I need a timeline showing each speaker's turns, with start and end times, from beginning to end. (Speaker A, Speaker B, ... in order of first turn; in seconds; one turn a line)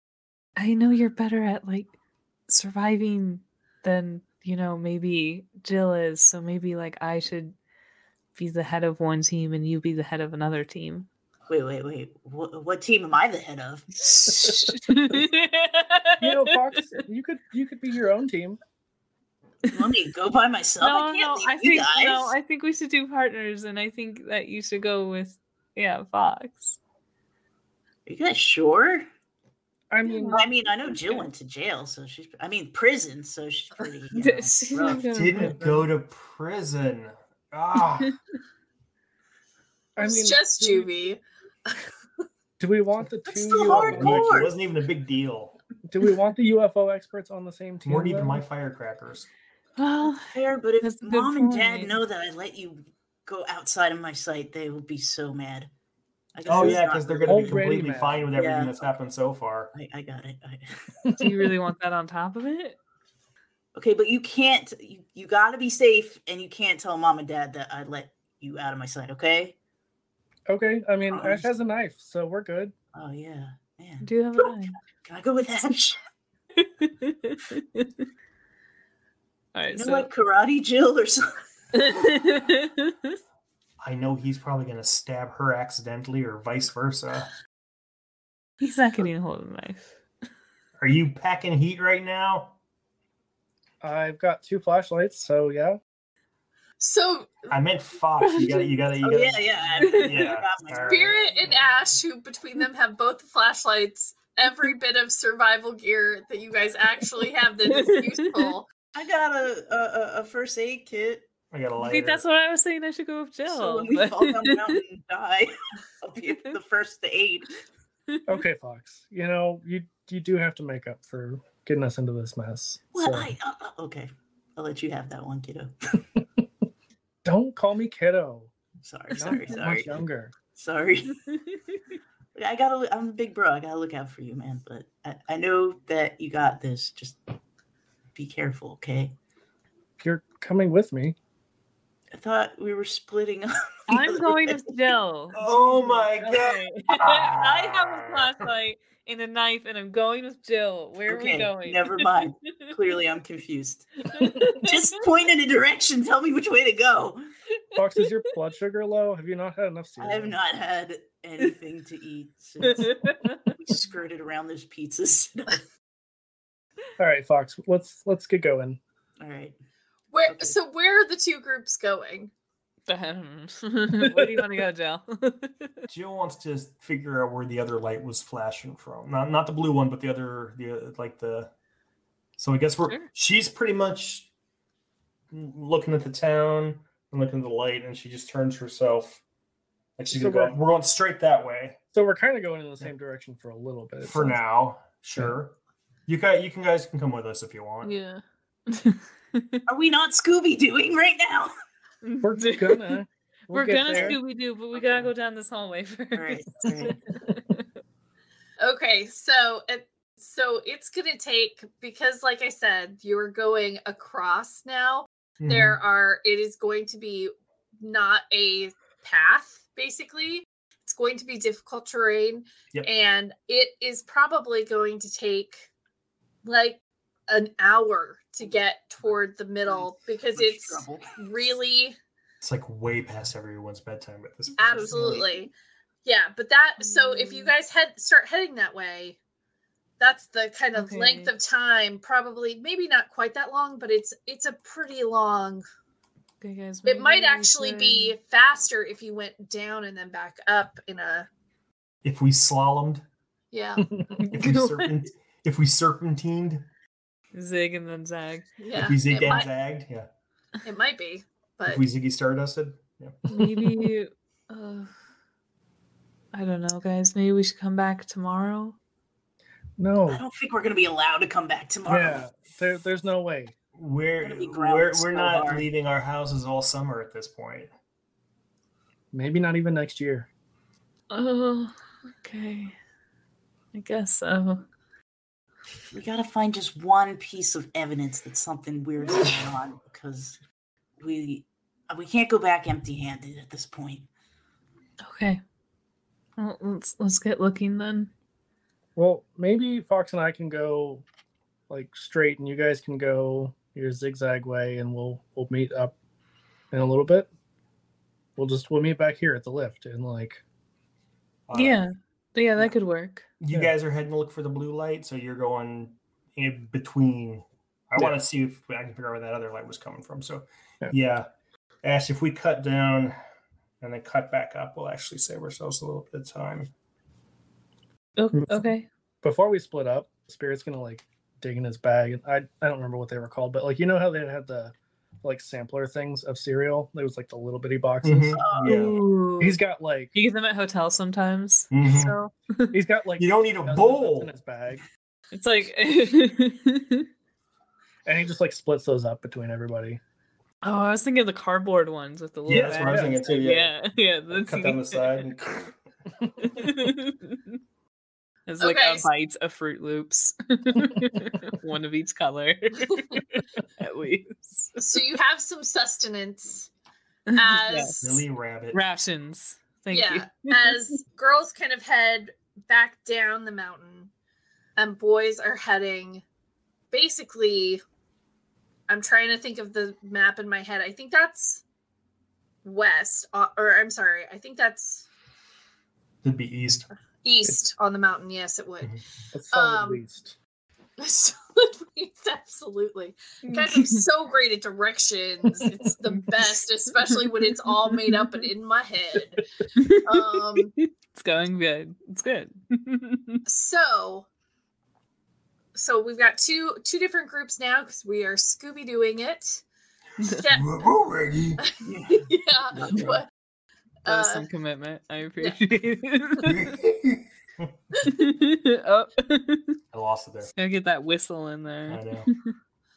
Speaker A: 0.6-1.9
Speaker A: 2.5-7.5
Speaker A: 8.3-11.1
Speaker B: 11.5-14.0
Speaker A: 14.0-17.0
Speaker C: 14.3-14.8
Speaker C: 16.2-18.6
Speaker B: 19.7-22.3
Speaker A: 20.8-26.8
Speaker B: 28.1-29.1
Speaker C: 29.9-30.4
Speaker A: 30.0-30.4
Speaker B: 30.3-35.1
Speaker A: 34.1-35.9
Speaker D: 35.1-38.1
Speaker C: 40.0-40.9
Speaker E: 40.0-41.8
Speaker C: 42.6-44.5
Speaker B: 43.3-44.5
Speaker D: 43.7-45.5
Speaker C: 45.9-48.4
Speaker D: 47.8-49.3
Speaker A: 49.8-51.9
Speaker B: 50.2-55.7
Speaker B: 56.3-57.8
Speaker C: 56.5-58.3
Speaker D: 56.5-59.7
Speaker B: 58.3-58.9
Speaker B: 59.7-60.9
Speaker C: 61.0-61.3
Speaker A: 61.2-62.8
Speaker B: 63.7-69.5
Speaker C: 70.5-72.7
Speaker B: 71.1-71.5
Speaker B: 72.9-76.0
Speaker A: 74.0-74.7
Speaker A: 76.6-77.9
Speaker A: 79.5-80.1
Speaker B: 79.7-81.2
Speaker A: 81.7-83.2
Speaker D: 83.8-87.3
Speaker A: 88.6-90.0
Speaker D: 90.8-92.5
Speaker C: 93.8-95.8
Speaker E: 96.8-97.5
Speaker D: 97.5-101.7
Speaker A: 98.2-98.6
Speaker B: 99.0-101.4
Speaker A: 99.8-100.3
Speaker E: 100.8-108.7
Speaker A: 107.7-108.5
Speaker B: 108.9-111.3
Speaker D: 111.5-112.2
Speaker A: 111.8-114.8
Speaker B: 113.5-117.5
Speaker C: 118.3-123.3
Speaker B: 122.9-126.0
Speaker C: 127.2-128.5
Speaker B: 128.8-130.0
Speaker C: 129.1-130.3
Speaker B: 130.5-131.2
Speaker B: 132.3-137.2
Speaker B: 138.1-139.1
Speaker C: 140.0-141.2
Speaker B: 142.1-144.7
Speaker A: 143.9-152.7
Speaker D: 145.3-148.5
Speaker B: 151.1-157.2
Speaker A: 154.1-154.9
Speaker C: 157.8-160.4
Speaker B: 160.0-165.6
Speaker A: 162.6-163.5
Speaker C: 167.0-168.8
Speaker B: 169.2-169.6
Speaker E: 170.1-172.3
Speaker B: 170.3-170.5
Speaker A: 172.9-175.8
Speaker C: 174.0-174.4
Speaker D: 175.9-181.5
Speaker D: 182.4-184.3
Speaker D: 185.3-189.2
Speaker D: 190.0-191.8
Speaker C: 190.1-190.6
Speaker C: 191.9-194.4
Speaker D: 194.0-195.5
Speaker D: 196.1-197.9
Speaker A: 197.8-199.6
Speaker B: 199.7-201.5
Speaker A: 202.0-207.7
Speaker C: 202.2-204.2
Speaker B: 203.9-204.1
Speaker B: 204.7-205.1
Speaker B: 206.1-207.0
Speaker E: 208.6-225.7
Speaker D: 215.4-215.8
Speaker E: 226.4-231.9
Speaker B: 229.7-231.5
Speaker D: 232.4-235.2
Speaker E: 234.6-235.5
Speaker B: 234.6-235.3
Speaker E: 236.0-239.2
Speaker A: 236.8-237.5
Speaker E: 240.0-245.6
Speaker A: 240.7-241.3
Speaker A: 246.4-248.1
Speaker E: 246.8-251.3
Speaker D: 252.0-253.0
Speaker E: 253.5-253.8
Speaker C: 253.8-254.2
Speaker A: 254.2-255.0
Speaker D: 254.3-256.6
Speaker A: 257.3-258.5
Speaker E: 258.6-259.5
Speaker D: 258.7-260.1
Speaker E: 260.6-261.8
Speaker D: 261.7-263.2
Speaker A: 263.3-264.9
Speaker A: 266.3-268.8
Speaker C: 269.8-270.2
Speaker B: 270.1-272.2
Speaker C: 271.9-273.5
Speaker D: 273.7-277.7
Speaker B: 274.2-275.6
Speaker C: 279.1-280.3
Speaker A: 281.1-282.8
Speaker A: 283.7-284.6
Speaker B: 285.9-290.4
Speaker B: 291.0-294.1
Speaker A: 295.0-295.4
Speaker A: 296.4-298.1
Speaker C: 298.9-301.0
Speaker C: 301.7-305.9
Speaker C: 306.7-307.3
Speaker C: 308.4-310.4
Speaker D: 311.5-311.8
Speaker A: 311.5-313.3
Speaker D: 313.4-321.3
Speaker D: 321.8-323.1
Speaker D: 323.8-326.7
Speaker A: 328.2-328.9
Speaker C: 328.3-328.7
Speaker C: 329.2-340.1
Speaker D: 338.0-338.9
Speaker B: 338.4-338.9
Speaker A: 338.6-339.6
Speaker A: 340.1-342.7
Speaker D: 341.7-342.1
Speaker C: 342.7-344.8
Speaker D: 343.2-344.3
Speaker A: 345.3-347.1
Speaker C: 348.0-350.0
Speaker A: 350.6-355.3
Speaker D: 352.5-353.7
Speaker C: 352.5-353.4
Speaker D: 354.3-355.7
Speaker C: 356.2-356.6
Speaker A: 356.4-357.5
Speaker A: 358.5-364.8
Speaker E: 358.6-359.1
Speaker E: 364.8-366.7
Speaker A: 367.3-368.0
Speaker E: 367.3-368.2
Speaker D: 368.0-368.8
Speaker A: 368.7-370.8
Speaker E: 369.9-374.1
Speaker E: 374.8-376.2
Speaker E: 376.9-377.8
Speaker E: 378.9-381.6
Speaker E: 382.6-385.1
Speaker D: 386.2-386.9
Speaker E: 387.2-388.9
Speaker C: 389.3-390.3
Speaker E: 389.5-390.0
Speaker E: 391.0-399.4
Speaker A: 393.4-394.0
Speaker A: 396.3-398.4
Speaker A: 399.8-403.4
Speaker E: 400.0-400.7
Speaker E: 403.4-404.3
Speaker E: 405.7-409.6
Speaker E: 410.2-410.7
Speaker D: 410.5-411.6
Speaker E: 411.6-413.3
Speaker B: 411.8-413.1
Speaker E: 414.0-414.4
Speaker A: 414.1-416.8
Speaker D: 416.4-417.7
Speaker A: 418.0-419.8
Speaker D: 419.9-420.5
Speaker A: 420.6-422.5
Speaker D: 421.9-422.3